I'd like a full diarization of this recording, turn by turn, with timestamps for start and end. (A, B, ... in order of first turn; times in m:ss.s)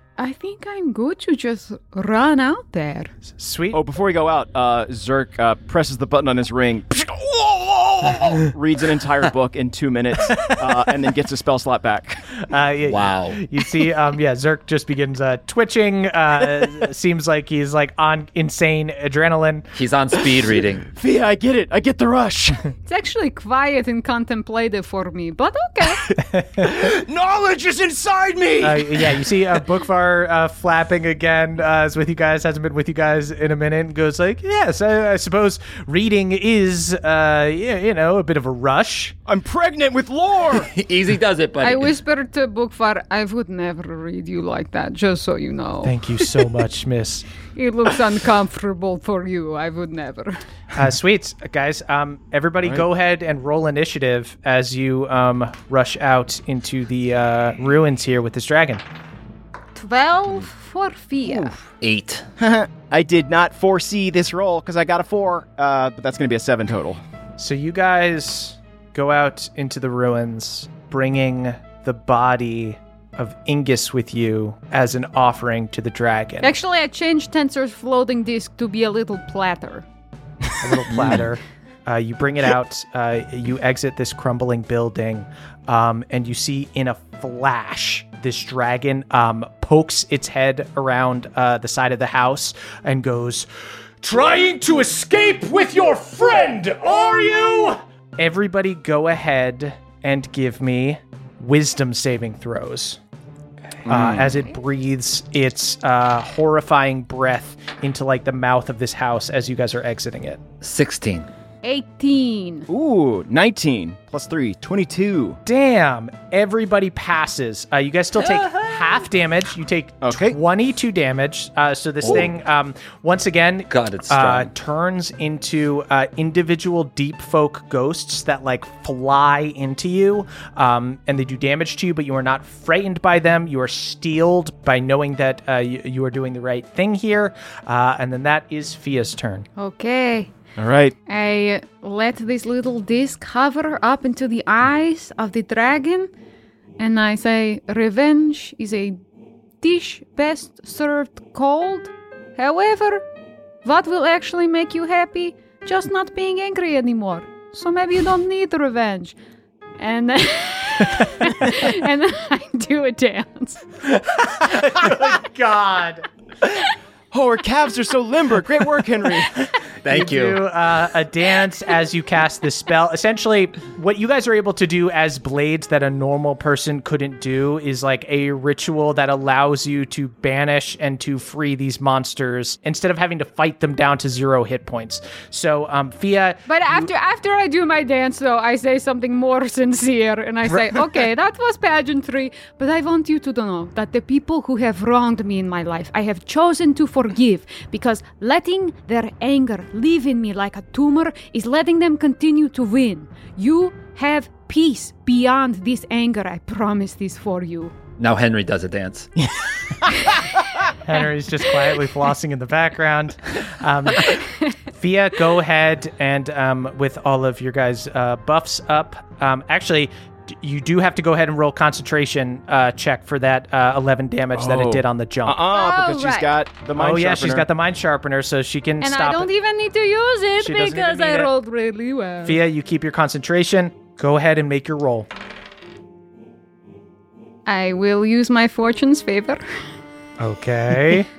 0:00.2-0:03.1 A
0:03.4-0:03.8 B
0:03.7-0:12.2 C
0:12.4-0:19.7 B
0:12.9-0:13.4 D
0:19.7-0:20.9 D
0:20.9-0:22.7 C
0:22.8-0:26.1 A
0:26.2-0:26.6 B
0:26.6-0:29.3 C
0:28.6-0:39.1 B
0:39.2-0:40.7 C
0:40.7-0:41.9 D
0:41.6-0:46.0 A
0:45.8-0:47.3 B
0:47.5-0:50.4 A
0:50.7-0:58.8 B
0:59.7-1:01.6 A
1:01.2-1:01.5 C
1:01.8-1:02.2 D
1:02.4-1:07.0 C
1:07.4-1:16.5 B
1:16.4-1:19.8 A
1:20.6-1:33.5 B
1:20.9-1:21.2 C
1:34.0-1:43.0 B
1:43.8-1:50.4 B
1:43.8-1:44.3 D
1:50.6-1:51.3 D
1:51.6-1:52.7 A
1:52.7-1:55.4 C
1:55.4-2:19.5 B
2:00.0-2:00.4 C
2:03.7-2:04.5 D
2:19.6-2:20.3 A
2:20.6-2:21.0 C
2:21.1-2:26.1 A
2:26.8-2:29.0 A
2:29.6-2:33.0 A
2:33.6-2:39.2 A
2:39.8-2:43.6 A
2:44.0-2:46.0 B
2:47.1-2:49.5 C
2:49.8-2:50.4 D
2:49.9-3:06.4 B
3:06.5-3:27.7 A
3:28.0-3:29.1 D
3:29.2-3:30.0 C
3:30.0-3:30.3 A
3:30.8-3:34.2 B
3:34.0-3:34.6 A
3:34.7-3:45.4 B
3:44.3-3:47.5 C
3:45.5-3:46.4 A
3:46.8-3:49.3 B
3:48.8-3:52.4 A
3:50.4-3:51.3 B
3:52.2-3:55.1 B
3:57.4-3:59.8 A
4:00.2-4:01.1 B